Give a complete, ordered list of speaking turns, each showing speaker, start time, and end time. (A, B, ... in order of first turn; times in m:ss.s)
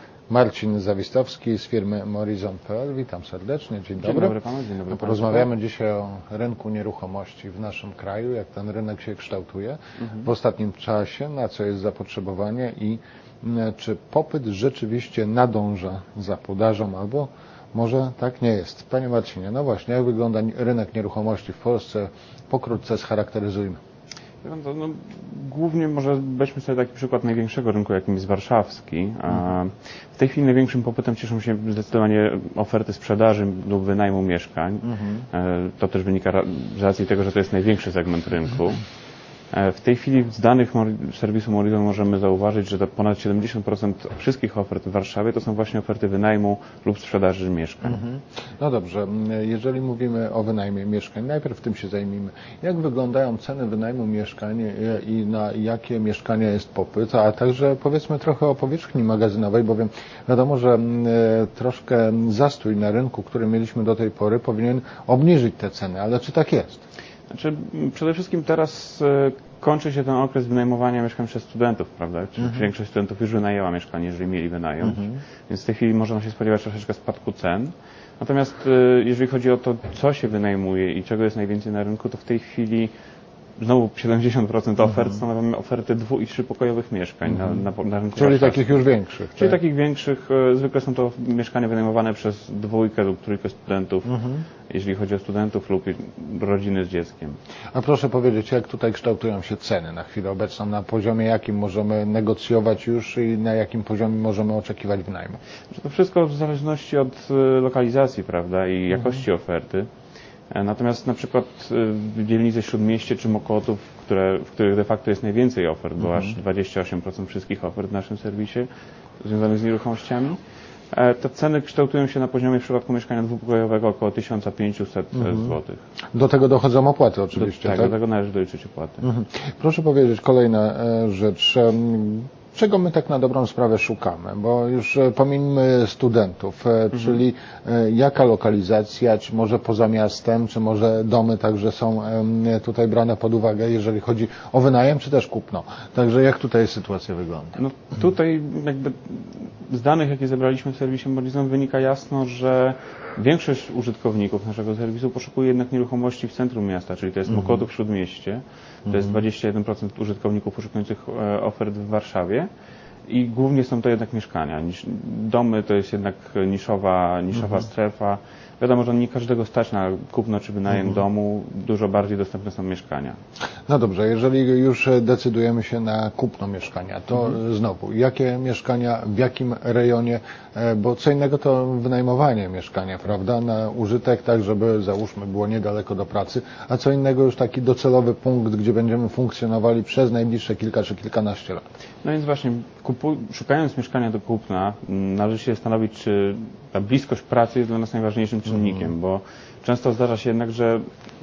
0:00.3-0:04.4 A
0:04.0-0:05.5 B
0:04.9-0:23.8 A
0:10.0-0:10.3 B
0:24.4-0:38.8 B
0:34.8-0:35.3 A
0:39.5-0:48.0 B
0:47.8-1:06.8 A
1:07.3-1:22.9 B
1:12.4-1:12.7 A
1:14.8-1:15.2 A
1:23.6-1:28.8 B
1:24.9-1:25.2 A
1:27.3-1:27.6 A
1:28.2-1:29.6 A
1:29.4-1:34.1 B
1:34.1-1:34.5 A
1:34.7-1:37.4 B
1:37.7-1:45.4 A
1:45.7-1:49.9 B
1:48.9-1:49.2 A
1:50.5-1:58.7 B
1:56.0-1:56.4 A
1:59.2-2:00.4 B
2:00.9-2:05.8 B
2:05.2-2:05.6 A
2:06.1-2:07.9 A
2:07.4-2:09.0 B
2:09.0-2:27.6 A
2:27.6-2:42.5 B
2:37.3-2:37.6 A
2:38.9-2:39.2 A
2:43.1-2:53.2 B
2:53.7-3:11.7 A
3:12.0-3:20.8 B